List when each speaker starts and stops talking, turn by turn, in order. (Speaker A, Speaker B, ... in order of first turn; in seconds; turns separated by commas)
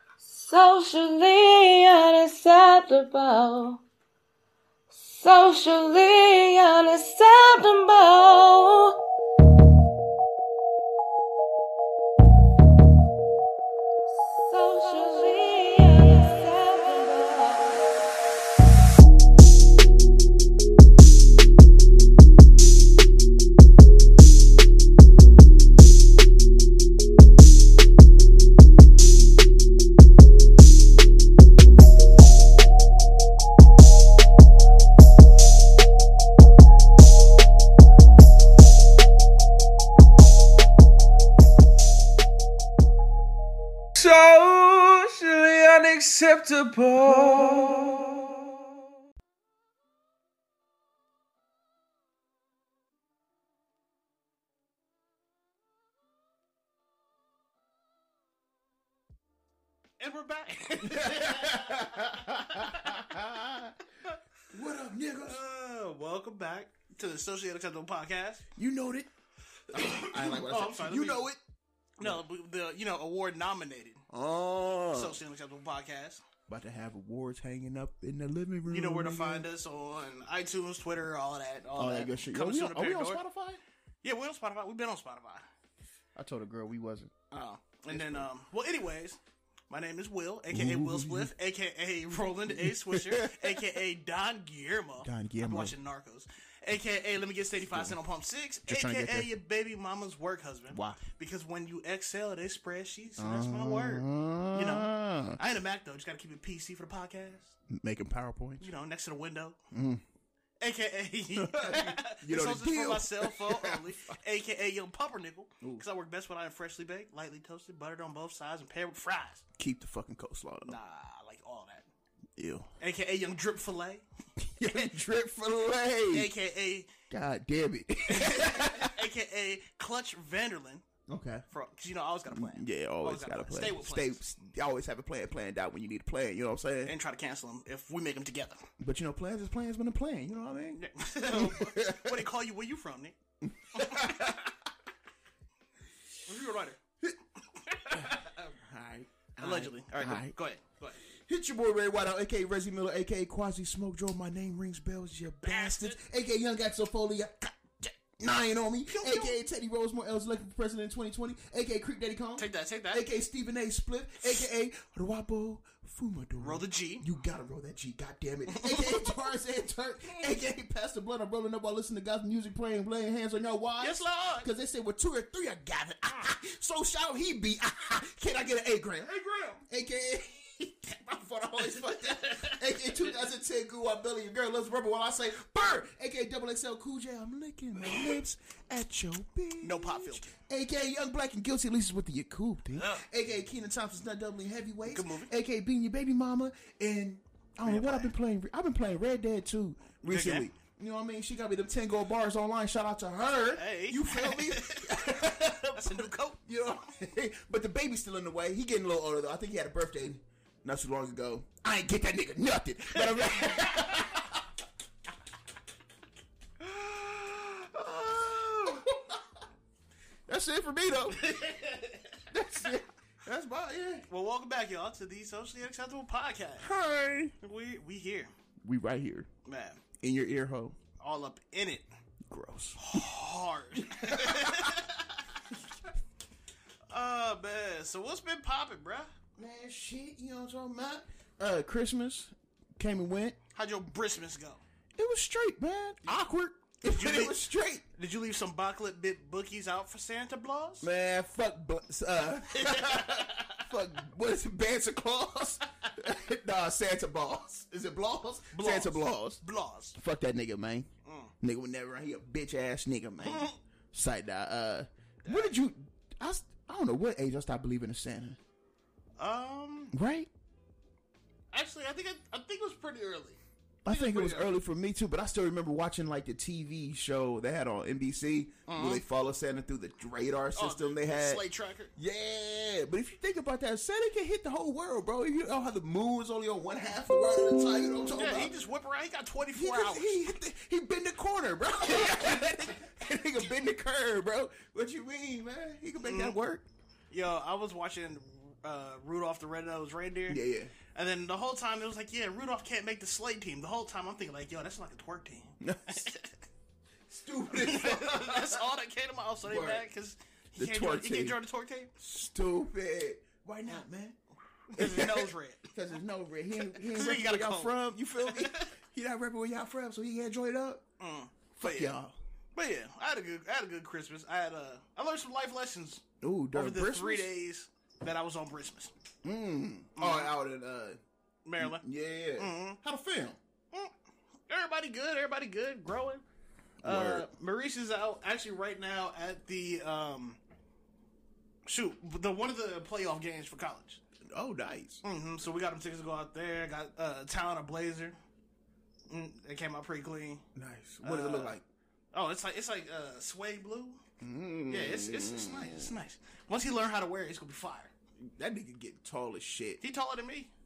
Speaker A: 0.2-3.8, Speaker A: 4.9-9.0, Speaker A: 14.1-18.0, Speaker B: 44.0-48.5, Speaker C: 60.0-63.1, Speaker D: 60.8-63.8, Speaker D: 64.5-65.4, Speaker C: 65.2-68.5, Speaker D: 68.5-69.1, Speaker C: 69.7-71.3, Speaker D: 69.7-71.4, Speaker C: 72.0-74.0, Speaker D: 74.1-75.2, Speaker C: 74.9-76.2, Speaker D: 76.5-79.5, Speaker C: 78.7-83.2, Speaker D: 81.8-83.6, Speaker C: 84.0-85.4, Speaker D: 86.1-87.1, Speaker C: 87.3-89.2, Speaker D: 87.9-88.3, Speaker C: 89.7-107.5, Speaker D: 90.5-91.3, Speaker D: 92.5-93.6, Speaker D: 95.0-95.7, Speaker D: 97.7-98.0, Speaker D: 98.7-99.3, Speaker D: 100.7-101.0, Speaker D: 103.2-105.4, Speaker D: 107.7-108.7, Speaker C: 108.6-109.6, Speaker D: 109.7-110.0, Speaker C: 110.6-119.4, Speaker D: 111.3-114.2, Speaker D: 115.6-115.8, Speaker D: 119.6-120.8, Speaker C: 120.6-121.9, Speaker D: 122.3-122.7, Speaker C: 122.8-124.0, Speaker D: 124.4-126.3, Speaker C: 124.6-124.9, Speaker C: 126.1-126.9, Speaker D: 127.1-129.0, Speaker C: 128.1-130.8, Speaker D: 131.1-131.4, Speaker C: 131.5-134.2, Speaker D: 132.3-136.9, Speaker C: 136.8-138.6, Speaker D: 138.8-142.2, Speaker C: 140.7-143.2, Speaker D: 143.4-144.5, Speaker C: 143.7-144.3, Speaker C: 146.2-146.8, Speaker C: 147.6-148.6, Speaker D: 147.8-150.3, Speaker C: 149.4-151.0, Speaker D: 151.2-214.4, Speaker C: 155.4-156.0, Speaker C: 158.9-159.4, Speaker C: 162.4-163.1, Speaker C: 166.4-167.1, Speaker C: 168.5-169.2, Speaker C: 173.8-174.5, Speaker C: 179.1-179.6, Speaker C: 181.7-183.1, Speaker C: 187.8-188.2, Speaker C: 189.6-190.3, Speaker C: 192.7-193.0, Speaker C: 194.9-195.3, Speaker C: 197.6-198.1, Speaker C: 200.0-200.5, Speaker C: 203.5-205.2, Speaker C: 205.7-206.4, Speaker C: 213.1-214.2, Speaker D: 216.6-219.2, Speaker D: 220.3-221.2, Speaker C: 221.2-222.2, Speaker D: 222.3-224.1, Speaker C: 224.1-226.7, Speaker D: 226.6-227.3, Speaker C: 227.4-228.3, Speaker D: 228.6-229.3, Speaker C: 229.4-229.8, Speaker D: 230.0-230.8, Speaker C: 231.0-231.8, Speaker D: 232.3-232.8, Speaker C: 232.8-235.2, Speaker D: 233.8-234.8, Speaker C: 236.9-239.1, Speaker D: 239.3-243.4, Speaker C: 243.5-244.6, Speaker D: 244.9-247.8, Speaker C: 246.8-247.4, Speaker C: 247.9-250.9, Speaker D: 250.8-259.4, Speaker C: 252.5-253.7, Speaker C: 258.5-260.0, Speaker D: 259.9-260.9, Speaker C: 261.0-261.3, Speaker D: 261.4-268.4, Speaker C: 263.2-263.6, Speaker C: 265.2-265.6, Speaker C: 269.2-269.9, Speaker D: 269.9-270.3, Speaker C: 271.5-274.5, Speaker D: 273.8-281.4, Speaker C: 278.7-279.0, Speaker C: 280.5-281.9, Speaker D: 282.0-288.5, Speaker C: 288.1-290.3, Speaker D: 289.5-296.6, Speaker C: 292.0-292.5, Speaker C: 296.0-296.4, Speaker C: 297.1-300.4, Speaker D: 300.3-300.7, Speaker C: 300.9-306.3, Speaker D: 305.6-306.1, Speaker D: 307.1-308.6, Speaker C: 307.5-311.9, Speaker D: 309.4-309.9, Speaker D: 310.6-311.4, Speaker D: 312.0-314.2, Speaker C: 314.7-315.7, Speaker D: 314.7-320.8, Speaker C: 316.6-318.7, Speaker C: 321.0-321.9, Speaker D: 321.6-322.1, Speaker C: 322.5-328.9, Speaker D: 326.2-327.3, Speaker D: 329.2-331.0, Speaker C: 330.0-330.3, Speaker C: 331.4-331.8, Speaker D: 331.6-333.4, Speaker C: 332.4-332.8, Speaker C: 334.5-336.2, Speaker D: 336.8-337.3, Speaker C: 336.8-340.4, Speaker C: 341.7-344.0, Speaker D: 344.3-345.0, Speaker C: 345.0-348.2, Speaker C: 349.1-350.4, Speaker D: 350.5-351.6, Speaker C: 351.0-351.6, Speaker C: 352.1-354.0, Speaker D: 354.2-355.9, Speaker C: 354.7-357.9, Speaker D: 358.2-359.8, Speaker C: 359.8-360.5